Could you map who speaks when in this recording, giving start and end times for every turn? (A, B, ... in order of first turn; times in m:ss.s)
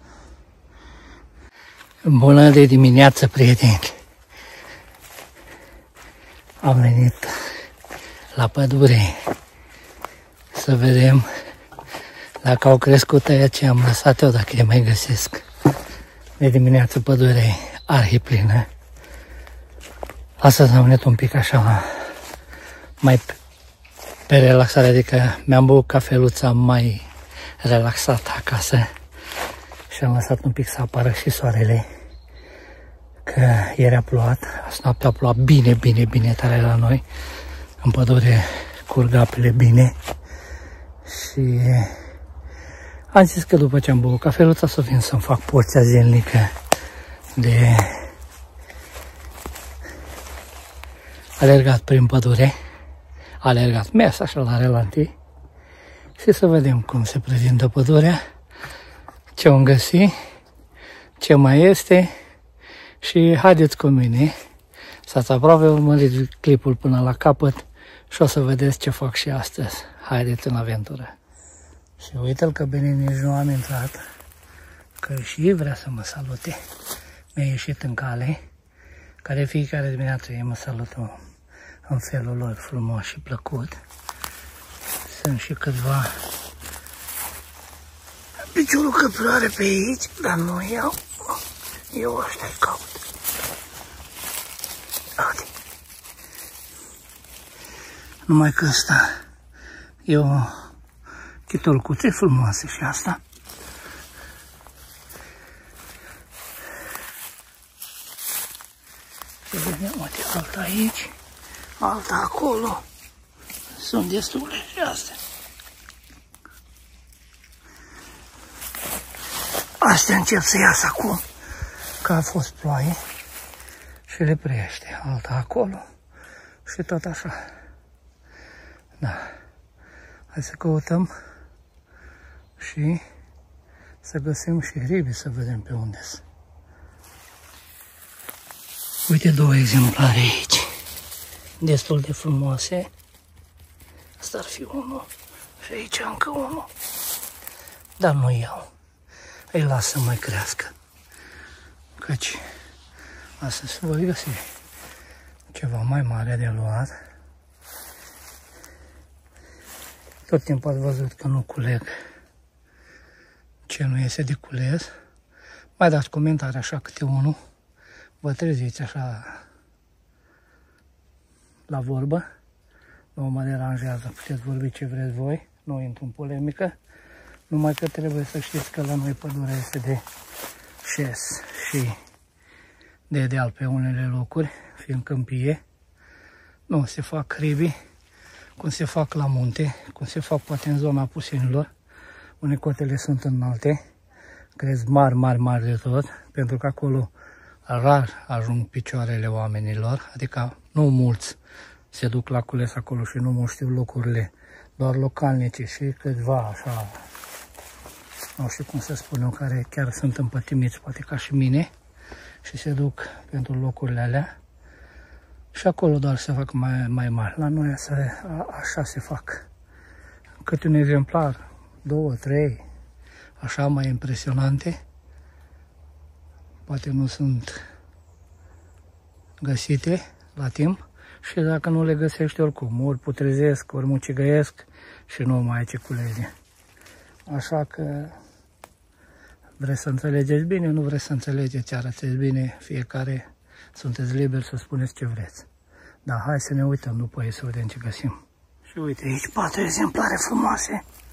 0:02.0-0:04.0 A
0:06.6-0:07.5 A
0:08.3-0:09.3 A
0:10.5-0:11.3 A
0:12.4-0:15.4 A
0:16.4-0:18.7 A
0:20.4-0:22.1 A
0:23.0-0:23.4 A
0:24.3-0:27.1 A
0:27.6-0:28.9 A
0:29.9-0:31.9 A
0:33.3-0:37.0 A
0:37.8-0:40.0 A
0:41.0-0:42.1 A
0:43.1-0:46.6 A
0:47.4-0:48.1 A
0:51.4-0:52.6 A
0:53.4-0:55.1 A
0:56.2-0:58.2 A
0:59.4-1:00.1 A
1:01.2-1:02.1 A
1:03.0-1:04.3 A
1:05.1-1:11.1 A
1:12.0-1:14.0 A
1:15.0-1:16.6 A
1:17.3-1:18.4 A
1:19.2-1:21.2 A
1:21.9-1:23.8 A
1:25.0-1:26.2 A
1:28.4-1:31.4 A
1:31.9-1:33.0 A
1:35.2-1:35.5 A
1:38.3-1:39.2 A
1:40.1-1:40.7 A
1:41.5-1:43.2 A
1:49.5-1:51.2 A
1:51.8-1:52.9 A
1:53.7-1:55.2 A
1:59.8-2:01.2 A
2:02.0-2:03.0 A
2:04.1-2:05.8 A
2:06.6-2:07.5 A
2:09.0-2:09.3 A
2:10.3-2:11.1 A
2:12.6-2:13.0 A
2:14.0-2:16.2 A
2:19.1-2:20.7 A
2:21.6-2:22.9 A
2:24.2-2:25.1 A
2:25.6-2:26.7 A
2:28.0-2:28.7 A
2:29.5-2:30.7 A
2:32.0-2:32.4 A
2:33.4-2:34.4 A
2:35.5-2:36.9 A
2:40.3-2:41.9 A
2:43.7-2:44.9 A
2:45.8-2:47.4 A
2:48.2-2:49.4 A
2:51.7-2:52.2 A
2:53.2-2:56.8 A
2:57.5-3:00.0 A
3:00.8-3:02.0 A
3:03.1-3:05.6 A
3:06.7-3:07.7 A
3:08.6-3:11.7 A
3:12.4-3:13.8 A
3:14.6-3:17.1 A
3:17.7-3:21.4 A
3:21.9-3:27.0 A
3:28.4-3:31.7 A
3:32.4-3:34.3 A
3:35.5-3:39.5 A
3:40.4-3:42.6 A
3:43.4-3:44.8 A
3:46.7-3:47.6 A
3:49.4-3:56.3 A
3:57.3-3:58.2 A
3:59.6-4:05.5 A
4:06.1-4:10.8 A